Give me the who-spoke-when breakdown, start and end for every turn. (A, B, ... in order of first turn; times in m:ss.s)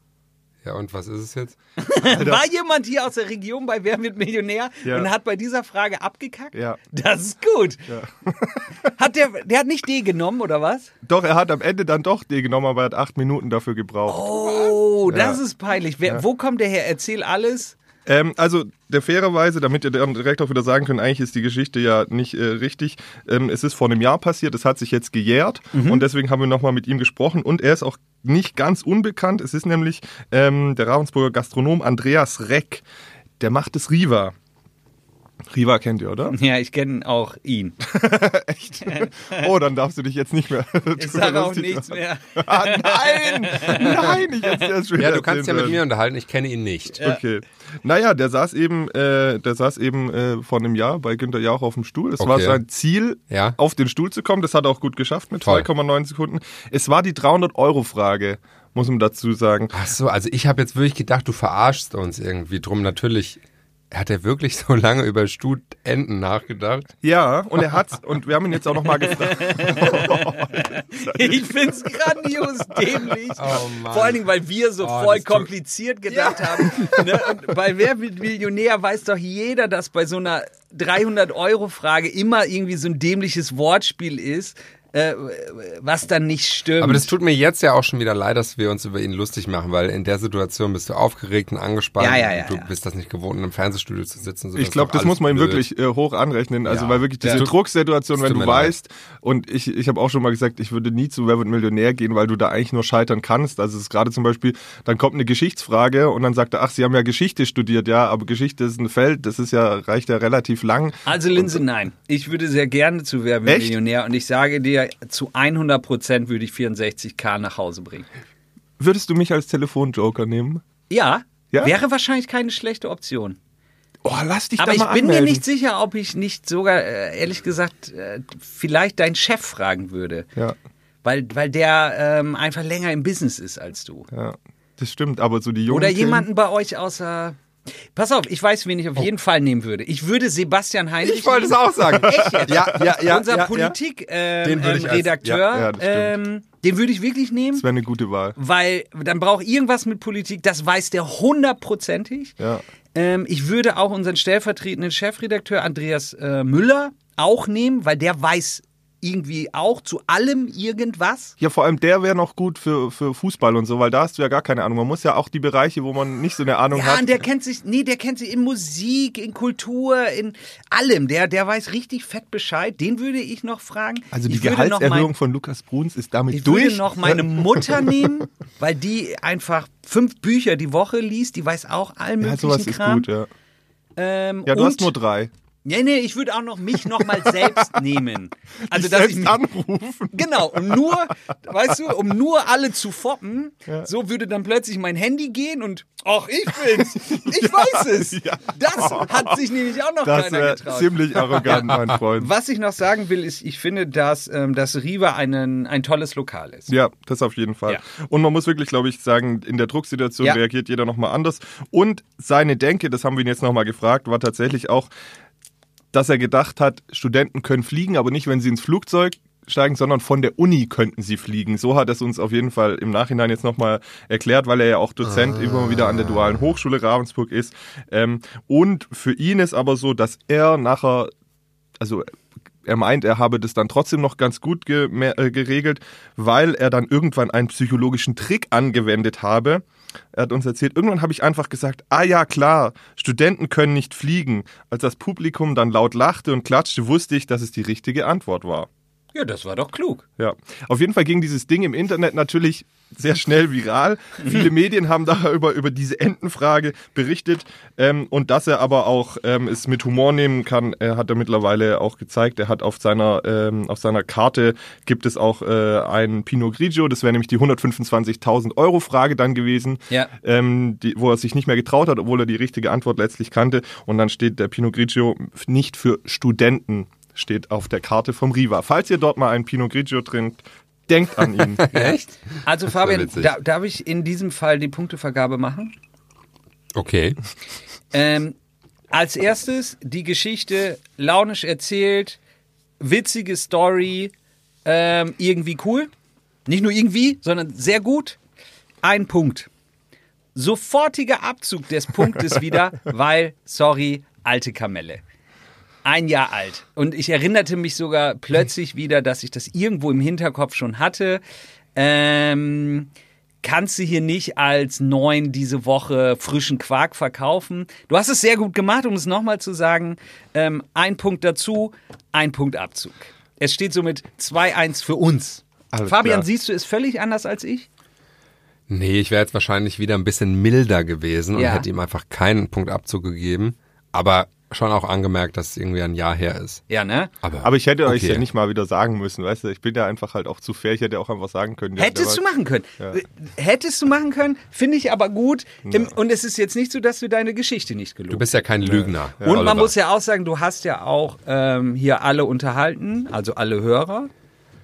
0:00.6-0:01.6 A
0:01.8-0:07.8 B
0:02.0-0:02.4 C
0:04.8-0:05.1 C
0:06.5-0:06.8 C
0:07.9-0:08.8 C
0:08.9-0:10.9 B
0:11.0-0:14.4 C
0:14.1-0:17.8 B
0:15.1-0:15.4 C
0:18.0-0:32.8 C
0:25.7-0:26.0 B
0:33.4-0:34.4 C
0:35.5-0:36.4 C
0:36.3-0:37.8 B
0:37.8-0:45.8 C
0:38.9-0:39.4 B
0:41.0-0:44.2 B
0:45.0-0:47.0 A
0:47.0-0:59.8 C
0:52.2-0:52.6 A
0:53.3-0:53.6 A
0:55.4-0:55.7 A
0:59.7-1:06.9 A
1:07.0-1:11.9 C
1:09.1-1:27.1 B
1:13.4-1:14.2 A
1:14.8-1:15.5 A
1:16.2-1:17.0 A
1:26.8-1:35.6 A
1:32.0-1:32.7 B
1:34.5-1:51.6 C
1:36.6-1:37.6 A
1:38.1-1:38.8 A
1:51.0-1:58.1 B
1:53.4-1:53.8 C
1:58.8-2:00.6 C
2:00.9-2:03.4 B
2:04.0-2:05.4 C
2:04.6-2:10.3 B
2:11.0-2:14.1 B
2:14.1-2:16.3 C
2:15.7-2:17.4 B
2:17.9-2:27.6 B
2:21.0-2:23.8 A
2:22.0-2:23.0 C
2:24.4-2:25.4 A
2:25.4-2:26.2 C
2:27.5-2:28.4 C
2:28.4-2:32.4 B
2:32.4-2:32.6 C
2:32.9-2:41.4 B
2:41.4-2:47.2 C
2:46.7-2:55.1 B
2:54.1-2:58.1 C
2:56.3-3:03.1 B
3:02.2-3:03.3 C
3:04.0-3:04.9 B
3:04.4-3:05.3 C
3:05.6-3:09.4 B
3:07.0-3:07.7 C
3:08.6-3:11.0 C
3:10.1-3:26.7 B
3:16.7-3:19.4 C
3:20.0-3:22.3 C
3:26.7-3:34.9 C
3:35.9-3:51.1 C
3:51.8-3:52.1 C
3:52.6-4:08.7 C
4:09.1-4:10.0 B
4:10.2-4:41.7 C
4:41.6-4:43.3 A
4:41.7-4:45.8 B
4:46.7-4:47.2 A
4:47.9-4:48.4 B
4:48.9-4:52.2 B
4:52.8-4:54.1 B
4:54.6-4:55.9 B
4:56.4-4:58.2 B
4:58.8-4:59.5 B
5:00.4-5:05.0 B
5:05.8-5:11.2 B
5:11.8-5:12.9 B
5:13.4-5:27.7 B
5:25.7-5:26.2 C
5:28.7-5:36.6 A
5:31.4-5:31.6 B
5:36.7-5:37.1 B
5:37.2-5:38.2 A
5:37.4-5:42.2 C
5:41.8-5:48.3 B
5:45.6-5:45.9 C
5:48.1-5:49.7 A
5:48.8-5:49.5 C
5:49.2-5:54.1 B